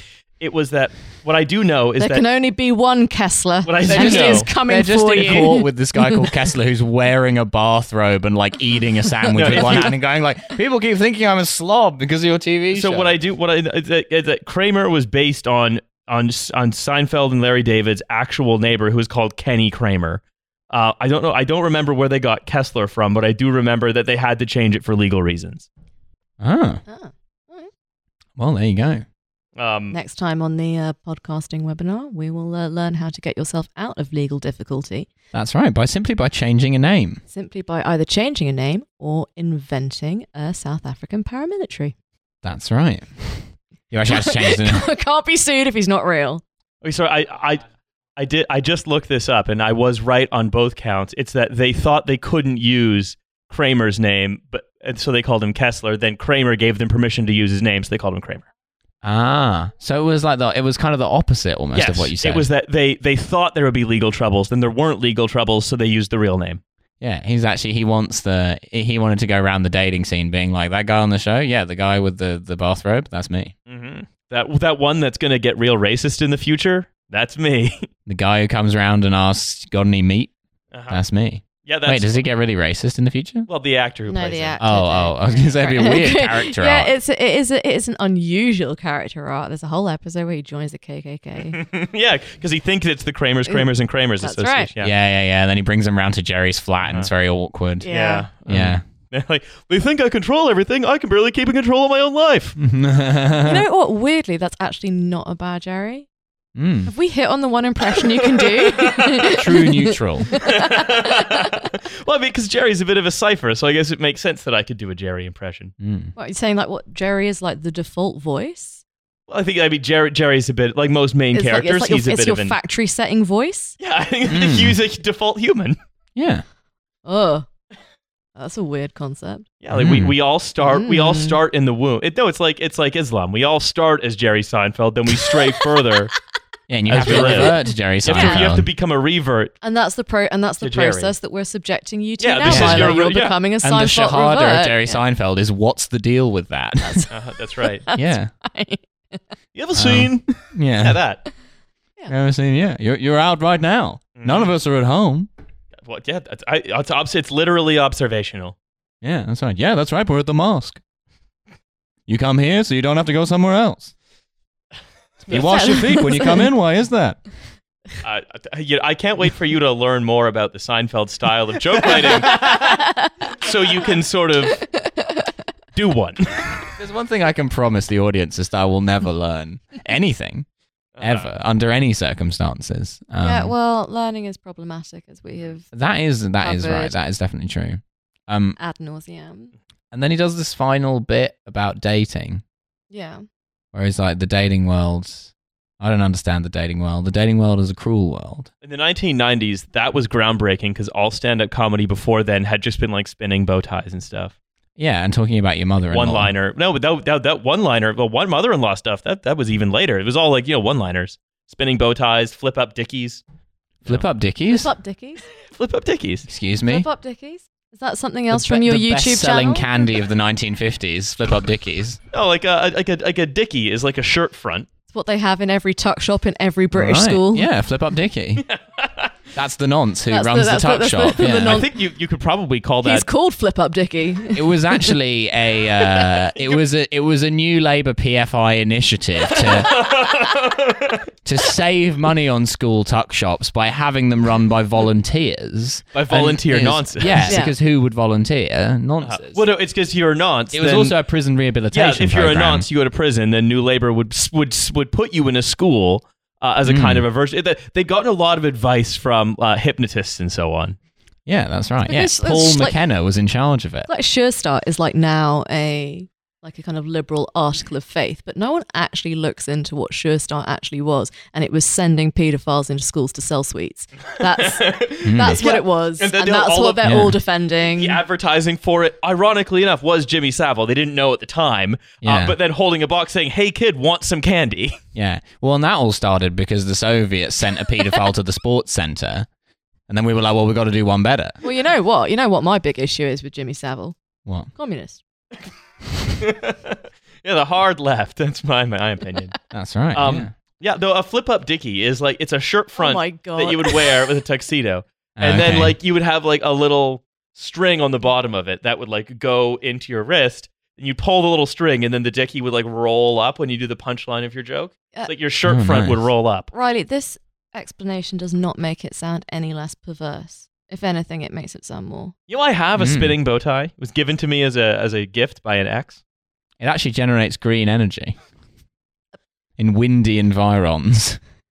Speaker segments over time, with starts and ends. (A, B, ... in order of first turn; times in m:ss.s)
0:00.4-0:02.2 A
0:02.0-0:06.3 B
0:03.6-0:04.5 A
0:03.9-0:13.2 C
0:05.2-0:05.5 A
0:09.3-0:09.9 A
0:12.7-0:25.6 A
0:26.4-0:26.8 C
0:26.9-0:27.7 B
0:28.4-0:29.0 C
0:29.6-0:30.0 A
0:29.9-0:35.1 B
0:35.3-0:37.2 C
0:37.3-0:41.9 B
0:42.4-0:44.9 C
0:44.1-0:46.4 B
0:46.8-0:47.6 A
0:48.2-0:58.4 A
0:59.0-1:02.5 C
1:01.7-1:06.6 A
1:07.0-1:13.5 C
1:13.7-1:17.9 A
1:18.1-1:20.3 C
1:20.7-1:21.0 A
1:20.9-1:23.5 C
1:21.6-1:22.2 A
1:23.5-1:24.6 A
1:24.1-1:31.6 B
1:24.6-1:26.9 C
1:31.5-1:34.9 A
1:34.2-1:34.7 B
1:34.8-1:37.9 C
1:36.8-1:37.1 A
1:37.8-1:38.3 B
1:37.9-1:42.6 A
1:38.5-1:38.8 C
1:42.6-1:43.6 C
1:43.4-1:46.1 B
1:46.6-1:46.9 C
1:46.9-1:51.6 B
1:48.4-1:49.3 A
1:49.3-1:50.4 C
1:50.3-1:55.7 A
1:55.8-1:56.1 C
1:56.2-1:58.8 B
1:59.3-2:02.6 A
2:01.3-2:03.8 B
2:03.8-2:05.8 A
2:04.3-2:04.8 C
2:06.2-2:06.4 C
2:07.1-2:07.5 B
2:08.4-2:09.5 B
2:09.6-2:16.1 A
2:09.7-2:10.2 C
2:10.6-2:11.4 B
2:16.7-2:18.7 C
2:16.9-2:19.5 A
2:17.1-2:18.5 B
2:19.6-2:25.0 B
2:20.6-2:21.2 A
2:22.2-2:23.4 A
2:22.4-2:23.0 C
2:23.6-2:27.1 C
2:26.8-2:29.2 B
2:27.1-2:27.8 A
2:27.9-2:28.3 C
2:29.5-2:31.2 A
2:29.8-2:31.0 C
2:32.1-2:35.3 C
2:34.2-2:34.5 A
2:35.8-2:38.6 A
2:39.0-2:40.8 C
2:42.1-2:43.9 C
2:45.2-2:47.2 C
2:45.3-2:46.5 B
2:48.0-2:52.8 A
2:52.1-2:53.1 B
2:53.4-2:54.6 A
2:54.5-2:55.3 B
2:55.8-2:56.6 A
2:56.8-3:00.5 C
3:01.0-3:01.3 A
3:01.0-3:03.5 C
3:03.2-3:05.7 B
3:05.7-3:08.6 C
3:06.4-3:07.0 B
3:08.6-3:09.5 B
3:09.9-3:12.4 C
3:12.9-3:13.2 B
3:13.7-3:18.5 C
3:18.6-3:24.3 A
3:24.8-3:26.3 C
3:25.9-3:33.2 A
3:33.8-3:34.7 C
3:34.5-3:35.2 B
3:35.5-3:36.3 A
3:36.3-3:36.9 C
3:36.6-3:40.0 B
3:38.3-3:42.0 C
3:42.1-3:44.7 A
3:44.9-3:47.5 B
3:46.7-3:48.5 C
3:48.4-3:49.1 A
3:49.3-3:51.6 C
3:50.1-3:51.7 B
3:51.2-3:53.1 A
3:52.8-3:54.9 B
3:54.3-3:59.7 C
3:59.4-4:01.0 A
4:01.2-4:09.4 C
4:05.9-4:07.3 A
4:07.3-4:07.5 B
4:09.0-4:11.0 A
4:10.5-4:12.6 C
4:11.7-4:20.8 A
4:16.6-4:17.1 C
4:21.2-4:23.9 C
4:21.9-4:22.8 B
4:23.9-4:38.0 B
4:34.4-4:36.9 A
4:35.0-4:35.4 C
4:36.8-4:37.2 C
4:37.6-4:44.8 A
4:42.0-4:42.4 C
4:44.9-4:49.3 C
4:49.9-4:51.4 C
4:51.4-4:54.0 B
4:54.2-4:54.5 C
4:54.5-4:55.0 B
4:56.2-4:59.4 A
4:59.5-5:00.3 C
4:59.9-5:16.5 A
5:02.8-5:04.0 B
5:05.2-5:05.8 C
5:15.5-5:16.0 C
5:16.5-5:22.1 B
5:22.3-5:26.0 A
5:22.8-5:23.2 C
5:26.6-5:28.2 C
5:29.6-5:31.2 C